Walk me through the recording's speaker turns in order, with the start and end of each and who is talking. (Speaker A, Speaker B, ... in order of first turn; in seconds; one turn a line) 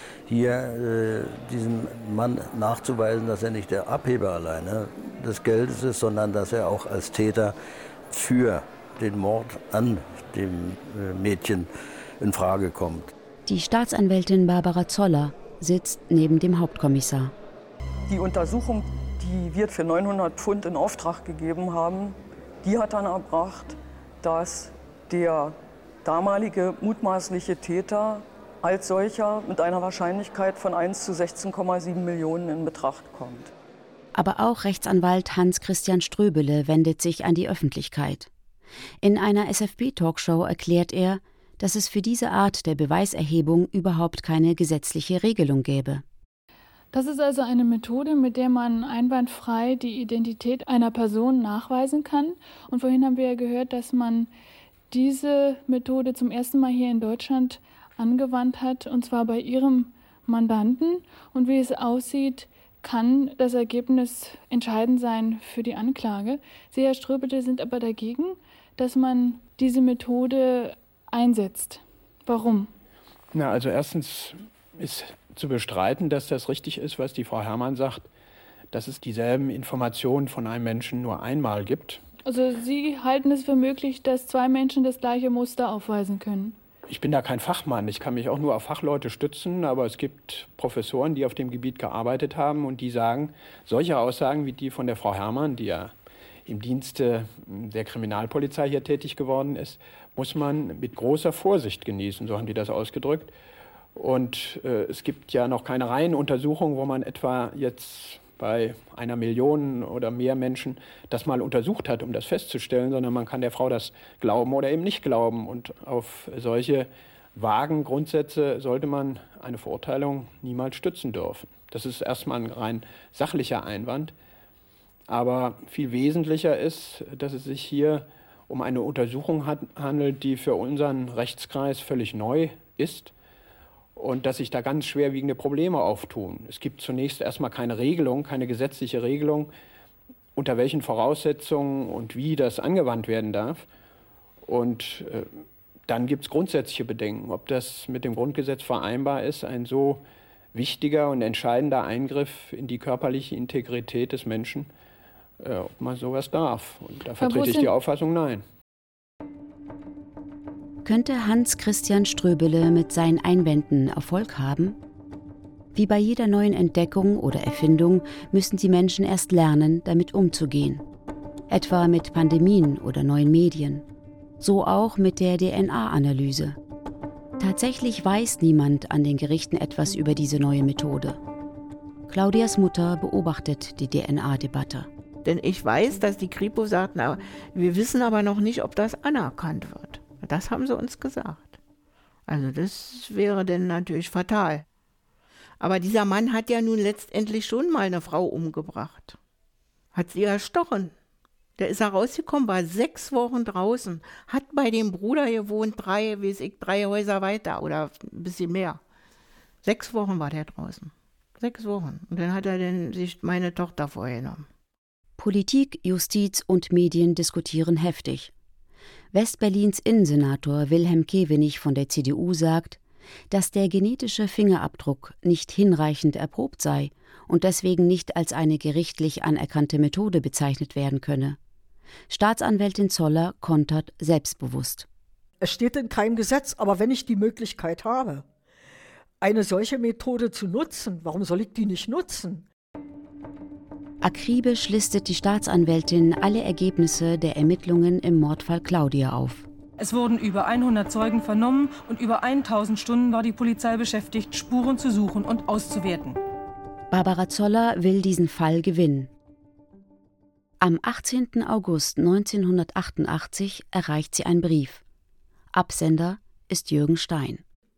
Speaker A: 0.3-7.5
Speaker A: 8.1-13.1
Speaker B: 13.5-17.3
Speaker C: 18.1-33.5
Speaker B: 34.1-38.3
Speaker B: 39.0-46.0
Speaker D: 46.9-54.3
Speaker D: 54.9-72.7
Speaker E: 73.3-78.1
Speaker E: 78.7-82.0
Speaker D: 82.2-86.6
Speaker E: 86.9-95.9
Speaker E: 96.5-103.3
Speaker E: 104.0-124.1
Speaker E: 125.1-133.1
Speaker E: 134.0-139.5
Speaker E: 140.3-143.7
Speaker E: 144.5-150.0
Speaker E: 150.5-154.7
Speaker E: 155.4-158.4
Speaker D: 157.2-157.7
Speaker B: 160.8-164.8
Speaker B: 165.7-170.8
Speaker B: 171.5-173.8
Speaker B: 174.4-176.6
Speaker B: 177.4-181.2
Speaker B: 182.1-184.9
Speaker F: 185.2-191.6
Speaker F: 192.3-194.7
Speaker F: 195.6-199.2
Speaker F: 199.9-200.9
Speaker F: 201.6-208.8
Speaker F: 209.6-214.5
Speaker B: 215.2-218.3
Speaker B: 219.1-222.8
Speaker B: 223.3-231.4
Speaker B: 232.1-234.9
Speaker G: 235.4-238.2
Speaker G: 239.2-242.5
Speaker B: 244.0-249.5
Speaker H: 249.8-256.2
Speaker B: 256.9-259.1
Speaker B: 260.6-264.8
Speaker B: 265.5-267.4